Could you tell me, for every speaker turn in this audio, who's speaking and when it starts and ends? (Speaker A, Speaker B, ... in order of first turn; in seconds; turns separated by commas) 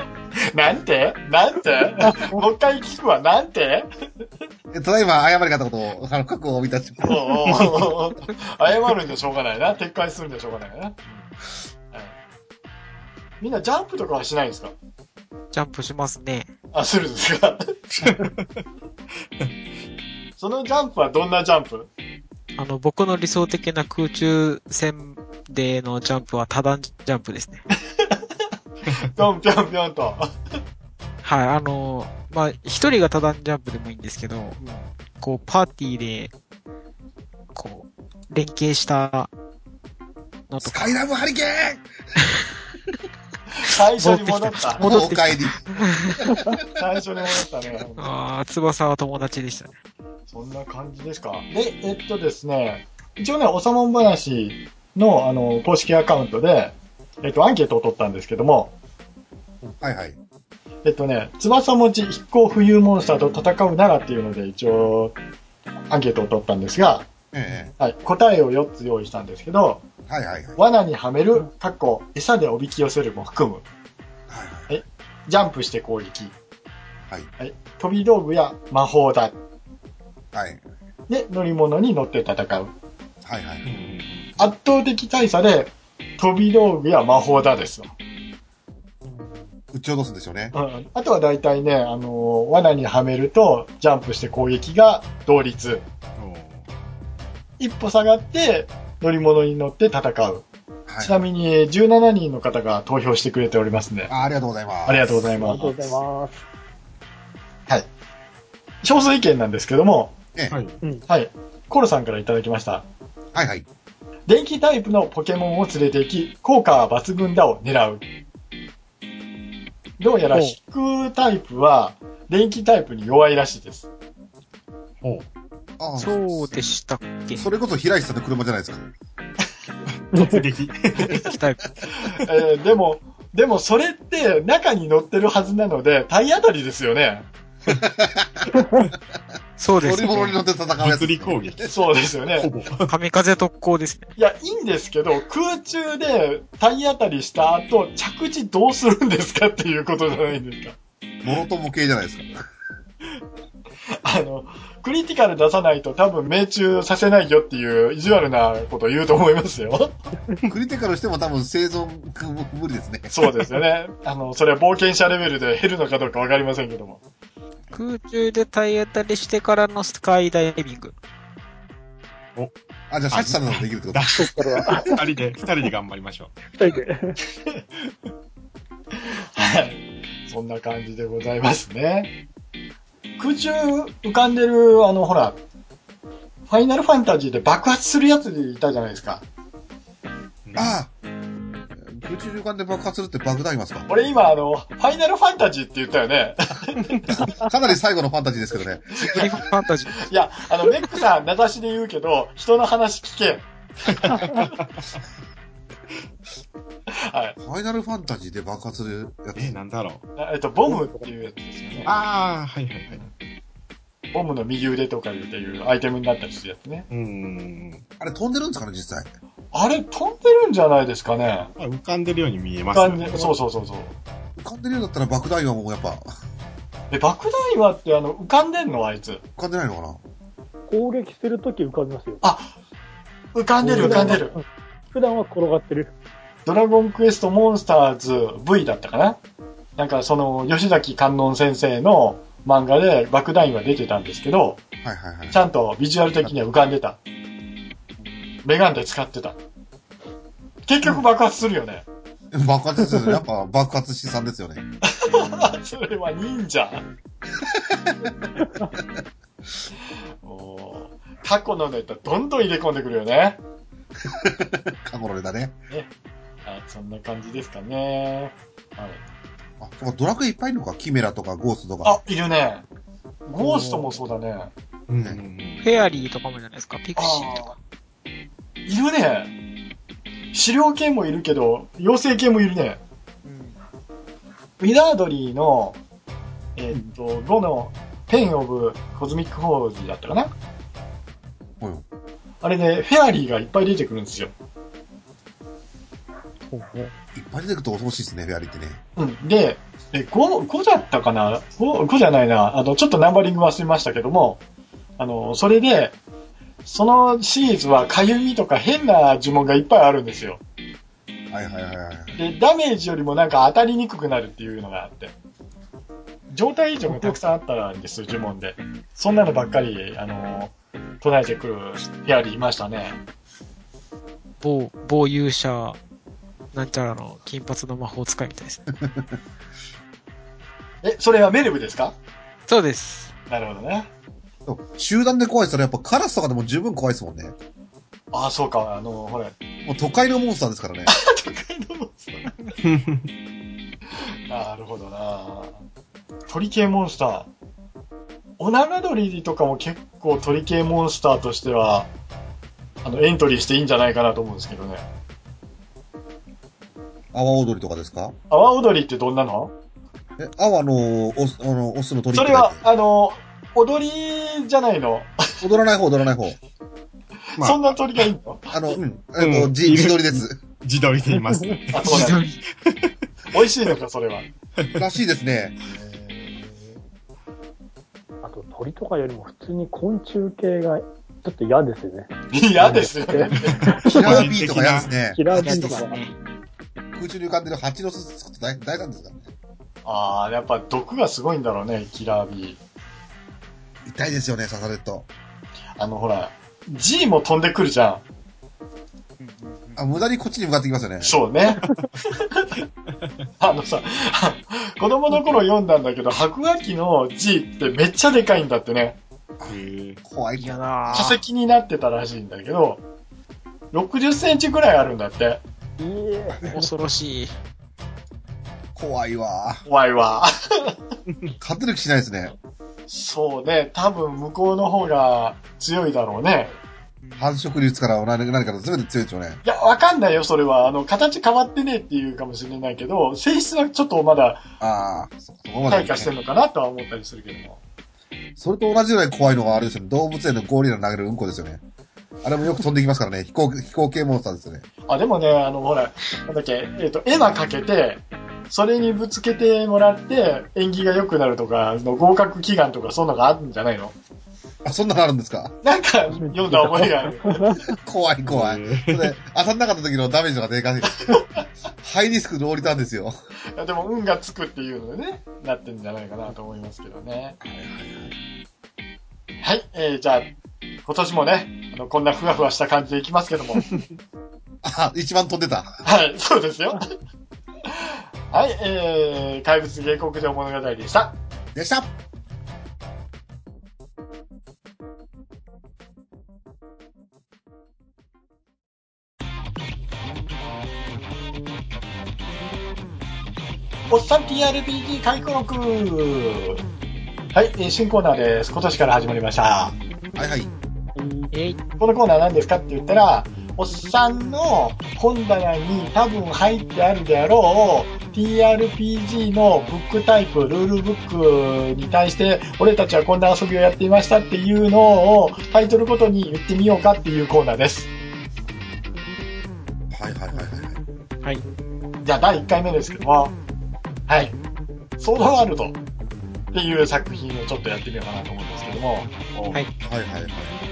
Speaker A: 0.5-3.9, Speaker B: 4.7-7.8, Speaker A: 7.0-11.3, Speaker A: 13.4-14.8, Speaker C: 15.5-16.5, Speaker A: 16.7-17.8, Speaker D: 18.0-18.5, Speaker A: 20.4-21.9, Speaker C: 22.6-27.6, Speaker A: 29.0-30.3, Speaker C: 31.2-34.6, Speaker A: 34.6-34.9, Speaker C: 35.2-36.3, Speaker C: 37.5-39.3, Speaker C: 40.5-41.0, Speaker B: 40.6-41.9, Speaker A: 43.6-44.9, Speaker C: 44.0-46.4, Speaker B: 44.8-46.6, Speaker A: 46.8-48.1, Speaker C: 48.0-49.7, Speaker A: 50.3-58.7, Speaker B: 59.8-60.2, Speaker A: 60.8-65.2, Speaker A: 65.9-67.1, Speaker B: 67.3-67.7, Speaker A: 67.8-69.8, Speaker B: 70.1-70.6, Speaker A: 70.6-73.6, Speaker B: 74.3-74.8, Speaker A: 74.7-76.3, Speaker A: 77.4-79.4, Speaker B: 80.3-80.6, Speaker A: 81.1-82.7, Speaker B: 83.2-83.7, Speaker D: 83.7-84.3, Speaker A: 84.4-87.9, Speaker E: 89.0-89.4, Speaker B: 89.7-90.5, Speaker A: 90.5-95.8, Speaker D: 96.2-96.7, Speaker A: 97.6-100.5, Speaker B: 100.9-101.2, Speaker A: 101.0-104.1, Speaker B: 104.1-105.3, Speaker A: 104.9-106.0, Speaker E: 105.3-106.4, Speaker A: 108.8-110.1, Speaker D: 110.5-110.8, Speaker A: 111.1-112.8, Speaker B: 113.3-113.7, Speaker A: 114.3-118.0, Speaker A: 120.0-123.9, Speaker B: 125.8-126.7, Speaker C: 126.0-127.5, Speaker B: 127.3-128.9, Speaker D: 130.0-131.3, Speaker E: 130.1-130.4, Speaker C: 131.1-131.7, Speaker A: 132.1-137.3, Speaker B: 137.7-138.5, Speaker C: 139.6-140.4, Speaker B: 139.8-141.7, Speaker D: 140.8-142.9, Speaker A: 141.7-142.5, Speaker C: 142.9-144.1, Speaker A: 144.2-150.8, Speaker B: 151.2-152.4, Speaker A: 154.0-159.9, Speaker B: 160.5-163.1, Speaker A: 163.1-167.0, Speaker C: 167.7-170.9, Speaker B: 172.9-174.8, Speaker D: 173.1-176.8, Speaker E: 174.2-175.0, Speaker E: 176.6-177.2, Speaker A: 178.9-182.1, Speaker A: 183.2-185.4, Speaker A: 186.5-189.2, Speaker D: 190.5-190.8, Speaker B: 190.6-190.9, Speaker B: 191.8-193.9, Speaker A: 193.9-197.0, Speaker B: 197.1-199.4, Speaker C: 199.0-200.1, Speaker A: 200.0-204.5, Speaker D: 204.0-204.6, Speaker A: 206.9-207.4, Speaker B: 207.4-209.6, Speaker D: 209.4-210.1, Speaker A: 210.2-211.9, Speaker E: 210.7-211.1, Speaker D: 211.8-213.1, Speaker A: 214.1-216.9, Speaker D: 216.9-217.8, Speaker B: 218.0-219.1, Speaker A: 219.5-221.5, Speaker D: 221.6-223.4, Speaker A: 222.7-224.0, Speaker B: 224.4-226.1, Speaker A: 226.9-229.2, Speaker B: 229.4-230.0, Speaker E: 230.7-232.2, Speaker A: 232.2-232.5, Speaker A: 233.3-234.4, Speaker E: 233.6-235.9, Speaker A: 236.4-239.2, Speaker A: 239.8-244.6, Speaker B: 244.8-245.4, Speaker A: 245.3-247.0, Speaker A: 248.4-249.4, Speaker A: 250.7-251.8, Speaker B: 252.3-254.7, Speaker A: 254.8-256.9, Speaker B: 257.4-258.1, Speaker A: 260.2-263.4, Speaker B: 264.1-265.6, Speaker A: 266.4-269.0, Speaker B: 269.6-272.0, Speaker A: 271.8-272.7, Speaker A: 273.3-274.5, Speaker D: 274.9-275.6, Speaker C: 275.6-277.5, Speaker A: 277.0-277.6, Speaker A: 278.7-279.3, Speaker A: 280.3-282.8, Speaker C: 283.2-283.6, Speaker A: 284.6-285.8, Speaker A: 286.6-290.3, Speaker A: 292.4-294.3, Speaker C: 296.5-296.9, Speaker B: 297.1-298.8, Speaker A: 299.0-304.4, Speaker A: 305.0-305.9, Speaker A: 306.6-310.4, Speaker B: 311.3-312.2, Speaker A: 312.1-315.1, Speaker A: 316.3-323.0, Speaker E: 316.9-317.1, Speaker C: 324.4-325.8, Speaker C: 326.5-328.6, Speaker B: 328.8-329.1, Speaker A: 330.8-331.9, Speaker C: 332.5-333.1, Speaker A: 333.3-333.9, Speaker B: 334.5-337.4, Speaker A: 338.1-339.3, Speaker B: 339.6-340.9, Speaker A: 340.9-342.3, Speaker D: 342.6-343.1, Speaker A: 344.3-345.6, Speaker A: 346.3-347.3, Speaker A: 348.4-351.9, Speaker A: 352.8-354.9, Speaker B: 357.1-358.2, Speaker A: 358.3-359.5, Speaker B: 360.2-362.6, Speaker A: 362.1-365.4, Speaker B: 365.4-366.4, Speaker A: 367.4-368.8, Speaker D: 367.4-368.0, Speaker B: 368.5-370.4, Speaker D: 369.2-372.9, Speaker E: 371.1-371.6, Speaker A: 371.7-372.2, Speaker C: 371.8-372.4, Speaker A: 373.3-374.3, Speaker B: 374.8-375.6, Speaker A: 375.6-376.8, Speaker E: 378.2-384.3, Speaker A: 382.3-383.8, Speaker D: 383.4-384.9, Speaker B: 383.9-385.9, Speaker E: 385.1-386.0, Speaker C: 385.3-386.1, Speaker B: 386.9-389.3, Speaker A: 389.9-392.6, Speaker B: 393.9-395.1, Speaker A: 395.8-398.0, Speaker C: 399.2-399.8, Speaker B: 399.8-401.2, Speaker A: 401.0-402.5, Speaker A: 403.4-409.0, Speaker B: 409.4-411.1, Speaker D: 409.5-410.0, Speaker C: 410.4-411.2, Speaker A: 410.9-412.8, Speaker A: 413.7-415.4, Speaker E: 415.8-416.7, Speaker B: 416.3-416.6, Speaker C: 416.5-417.3, Speaker B: 418.8-419.6, Speaker A: 419.7-420.8, Speaker D: 421.1-421.3, Speaker B: 421.4-422.3, Speaker A: 422.9-426.5, Speaker C: 427.0-427.3, Speaker B: 427.2-429.4, Speaker A: 429.4-434.4, Speaker B: 434.6-436.1, Speaker A: 435.7-437.6, Speaker B: 438.4-441.6, Speaker B: 442.2-444.6, Speaker A: 444.9-453.9, Speaker B: 454.6-455.6, Speaker A: 455.6-457.5, Speaker E: 456.2-457.7, Speaker B: 457.7-461.2, Speaker D: 458.2-459.1, Speaker B: 461.8-463.1, Speaker A: 463.6-467.4, Speaker B: 467.4-468.2, Speaker A: 469.4-470.3, Speaker A: 470.9-473.7, Speaker B: 474.6-475.8, Speaker A: 475.8-476.9, Speaker A: 477.7-481.2, Speaker B: 481.6-481.9, Speaker A: 493.9-496.6, Speaker A: 497.3-499.8, Speaker B: 500.2-500.5, Speaker E: 501.0-501.3, Speaker C: 501.3-501.6, Speaker A: 501.8-517.9, Speaker B: 519.9-520.8, Speaker A: 522.0-523.4, Speaker A: 524.1-524.4, Speaker A: 525.0-525.8, Speaker A: 526.5-529.1, Speaker B: 529.8-530.6